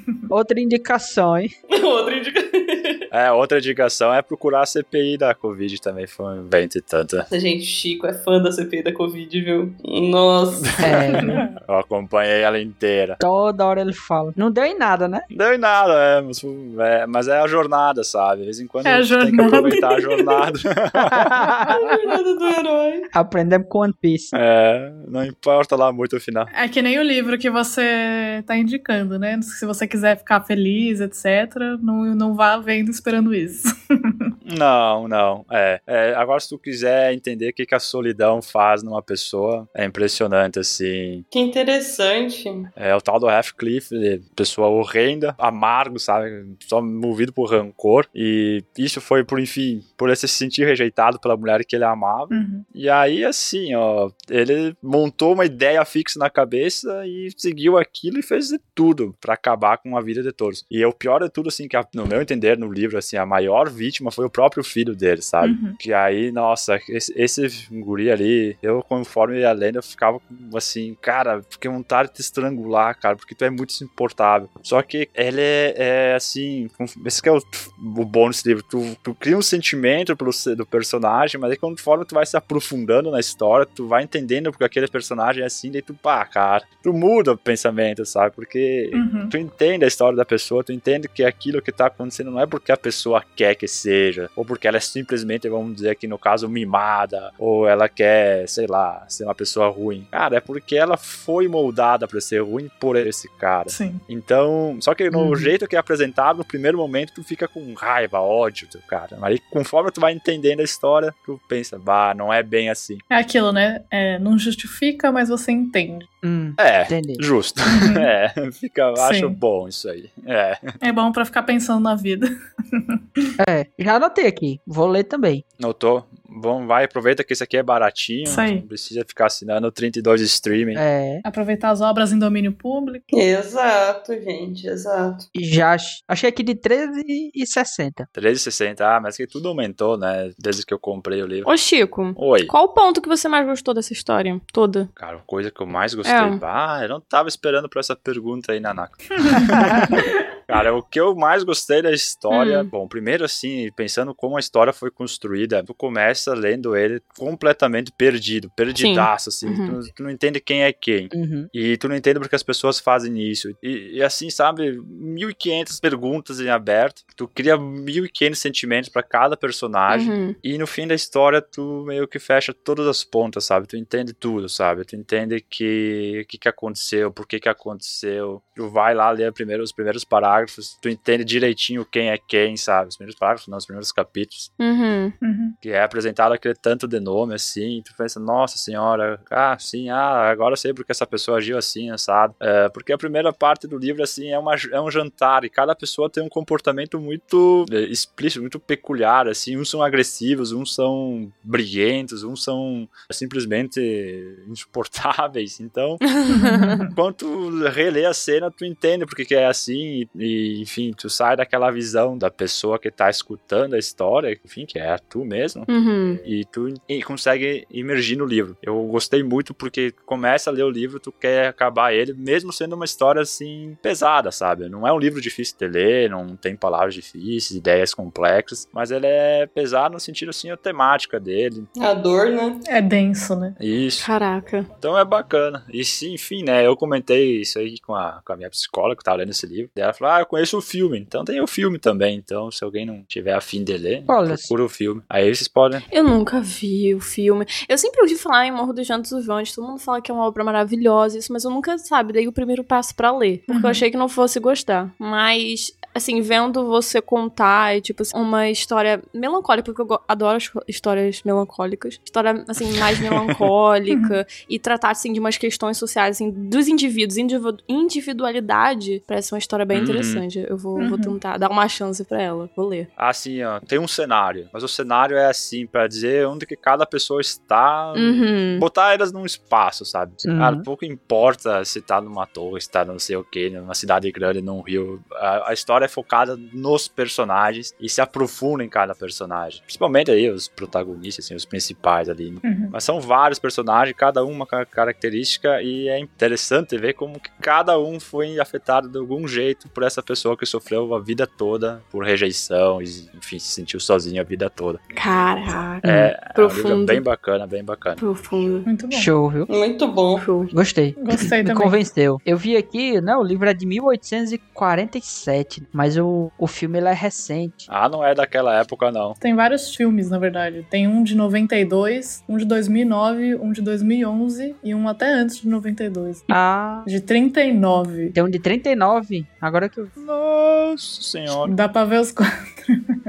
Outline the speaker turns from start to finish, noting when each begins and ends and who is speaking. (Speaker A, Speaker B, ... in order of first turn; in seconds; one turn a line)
Speaker A: 0.3-1.5
Speaker B: 1.7-3.0
Speaker C: 3.1-7.2
Speaker B: 7.3-10.8
Speaker C: 10.8-13.2
Speaker A: 10.8-11.4
Speaker A: 13.2-15.2
Speaker C: 15.3-21.4
Speaker D: 18.8-19.9
Speaker B: 19.4-20.1
Speaker A: 21.0-22.0
Speaker B: 21.6-23.1
Speaker A: 23.1-24.3
Speaker C: 24.3-26.5
Speaker D: 26.5-34.3
Speaker C: 34.4-41.2
Speaker B: 41.3-42.7
Speaker C: 42.8-113.0
Speaker D: 52.3-52.6
Speaker D: 65.4-65.8
Speaker D: 88.9-89.3
Speaker D: 103.7-104.0
Speaker A: 105.1-105.5
Speaker D: 113.1-116.1
Speaker A: 116.2-117.2
Speaker C: 116.6-120.7
Speaker D: 117.7-118.1
Speaker D: 119.0-119.4
Speaker D: 120.8-123.2
Speaker A: 123.4-125.4
Speaker C: 125.6-130.8
Speaker D: 128.2-128.6
Speaker A: 130.7-131.2
Speaker D: 131.2-133.0
Speaker B: 133.1-135.2
Speaker A: 135.3-138.1
Speaker C: 138.1-141.5
Speaker E: 141.4-144.9
Speaker C: 142.2-142.5
Speaker C: 144.9-184.5
Speaker E: 146.0-146.4
Speaker E: 152.3-152.7
Speaker E: 158.7-159.8
Speaker A: 161.1-161.5
Speaker E: 169.9-170.3
Speaker E: 184.6-185.1
Speaker D: 185.2-185.6
Speaker C: 185.6-206.2
Speaker E: 206.1-206.8
Speaker D: 206.3-206.9
Speaker C: 206.9-231.7
Speaker E: 215.7-216.2
Speaker B: 231.8-232.6
Speaker D: 232.7-233.6
Speaker C: 233.6-234.1
Speaker E: 234.0-234.7
Speaker C: 234.8-245.8
Speaker A: 244.1-244.5
Speaker E: 245.9-272.9
Speaker D: 253.5-253.8
Speaker D: 263.9-264.2
Speaker C: 269.7-270.2
Speaker D: 270.8-271.1
Speaker C: 273.0-304.8
Speaker E: 277.9-278.6
Speaker A: 280.2-280.7
Speaker D: 292.4-292.7
Speaker E: 304.9-307.0
Speaker A: 305.8-306.1
Speaker C: 305.8-308.0
Speaker E: 308.0-308.6
Speaker D: 308.6-309.1
Speaker A: 308.9-309.5
Speaker B: 309.5-310.3
Speaker E: 310.2-310.5
Speaker A: 310.5-317.7
Speaker D: 311.0-311.8
Speaker C: 317.7-319.2
Speaker D: 319.2-326.3
Speaker A: 326.3-326.9
Speaker D: 326.8-328.1
Speaker A: 328.1-329.9
Speaker C: 329.9-331.5
Speaker D: 331.4-332.9